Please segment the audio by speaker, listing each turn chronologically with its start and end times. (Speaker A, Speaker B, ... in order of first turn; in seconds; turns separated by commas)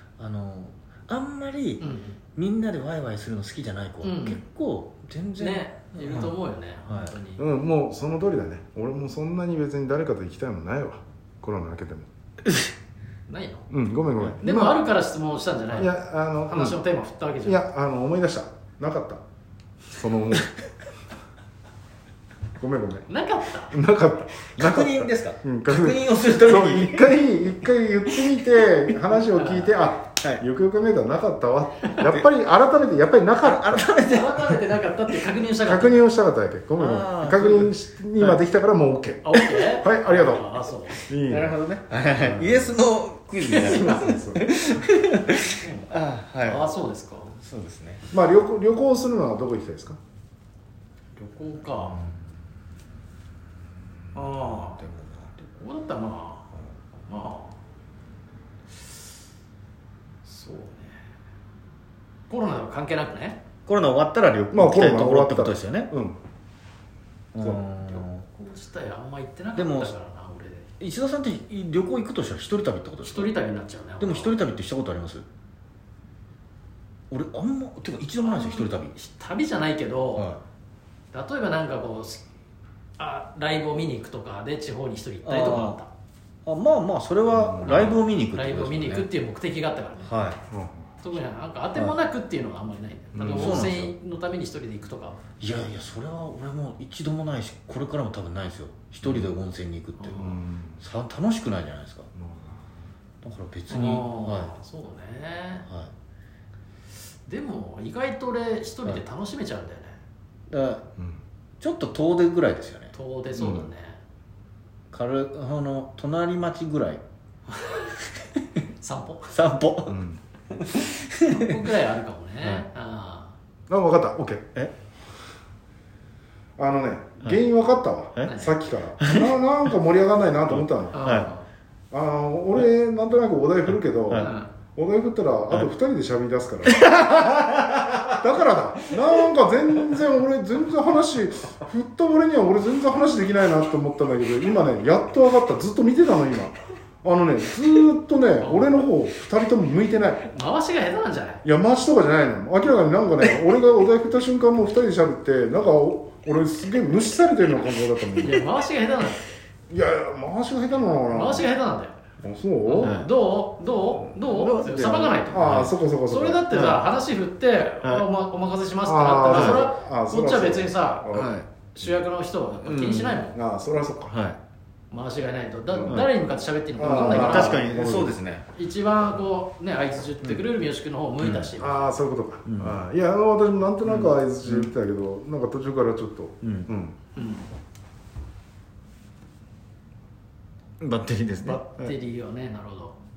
Speaker A: 0.2-6.3, Speaker B: 1.8-2.2, Speaker B: 4.0-4.4, Speaker B: 5.4-7.4, Speaker A: 6.9-7.2, Speaker C: 7.4-12.1, Speaker B: 13.3-13.7, Speaker C: 13.7-14.8, Speaker B: 14.4-17.6, Speaker C: 15.7-16.8, Speaker C: 17.4-19.2, Speaker C: 19.9-20.5, Speaker C: 22.6-23.1, Speaker B: 23.1-23.8, Speaker C: 23.7-33.9, Speaker A: 24.6-27.2, Speaker A: 28.2-28.7, Speaker B: 29.4-29.7, Speaker A: 30.2-30.4, Speaker A: 32.0-32.3, Speaker A: 33.4-34.8, Speaker B: 34.0-36.0, Speaker C: 35.6-41.6, Speaker A: 36.8-38.4, Speaker B: 39.2-41.1, Speaker A: 41.1-46.7, Speaker C: 42.2-42.7, Speaker B: 43.5-44.2, Speaker C: 43.6-44.8, Speaker B: 45.6-45.9, Speaker B: 46.4-47.4, Speaker A: 47.4-48.1, Speaker C: 48.1-50.0, Speaker B: 51.2-52.0, Speaker A: 51.8-52.1, Speaker B: 54.1-54.8, Speaker A: 54.3-55.4, Speaker B: 55.6-56.5, Speaker B: 57.1-57.6, Speaker B: 60.2-61.0, Speaker B: 62.3-63.4, Speaker A: 63.7-65.9, Speaker C: 64.5-66.2, Speaker A: 67.3-68.2, Speaker B: 67.9-70.7, Speaker A: 69.6-69.9, Speaker A: 70.8-73.3, Speaker B: 73.0-74.4, Speaker A: 74.0-75.3, Speaker A: 77.1-79.0, Speaker B: 78.2-80.3, Speaker A: 80.2-80.4, Speaker B: 81.1-82.2, Speaker B: 83.0-85.9, Speaker A: 85.2-85.8, Speaker A: 86.5-89.1, Speaker C: 87.3-87.9, Speaker B: 87.6-90.2, Speaker A: 90.0-90.4, Speaker C: 90.5-90.9, Speaker B: 91.0-95.2, Speaker C: 93.1-93.6, Speaker A: 93.2-93.9, Speaker A: 95.4-102.1, Speaker C: 99.0-99.3, Speaker B: 100.0-100.4, Speaker C: 100.2-100.8, Speaker C: 102.2-102.6, Speaker A: 103.2-104.5, Speaker B: 103.7-105.7, Speaker B: 107.3-110.0, Speaker A: 110.5-110.9, Speaker A: 111.6-112.9, Speaker B: 112.9-114.0, Speaker C: 113.4-113.7, Speaker A: 114.9-117.0, Speaker B: 118.8-119.3, Speaker A: 119.3-120.0, Speaker C: 119.9-120.2, Speaker A: 120.5-121.3, Speaker B: 121.2-123.3, Speaker C: 123.7-124.5, Speaker C: 126.6-131.1, Speaker B: 128.2-128.5, Speaker A: 129.0-129.4, Speaker A: 130.5-131.3, Speaker B: 130.9-131.4, Speaker C: 131.9-137.2, Speaker A: 134.0-134.4, Speaker B: 134.2-134.5, Speaker A: 136.7-138.2, Speaker C: 137.9-150.2, Speaker B: 148.4-148.8, Speaker B: 150.3-151.4, Speaker C: 151.4-158.5, Speaker B: 158.2-159.4, Speaker C: 159.7-161.5, Speaker B: 161.1-161.9, Speaker C: 162.2-163.0, Speaker B: 162.7-171.1, Speaker A: 162.8-163.1, Speaker A: 164.1-165.8, Speaker C: 165.3-166.5, Speaker A: 166.5-166.8, Speaker C: 168.8-172.0, Speaker A: 169.3-169.7, Speaker A: 171.1-171.5, Speaker B: 171.8-173.4, Speaker A: 172.6-173.3, Speaker C: 173.3-174.2, Speaker A: 174.1-174.4, Speaker B: 174.9-177.7, Speaker C: 175.7-176.0, Speaker C: 176.8-178.2, Speaker A: 176.8-178.5, Speaker B: 178.5-181.9, Speaker A: 181.2-181.5, Speaker C: 181.6-187.0, Speaker A: 182.5-182.8, Speaker A: 183.8-184.7, Speaker A: 186.4-186.7, Speaker B: 187.2-187.5, Speaker A: 190.8-191.9, Speaker B: 191.4-193.0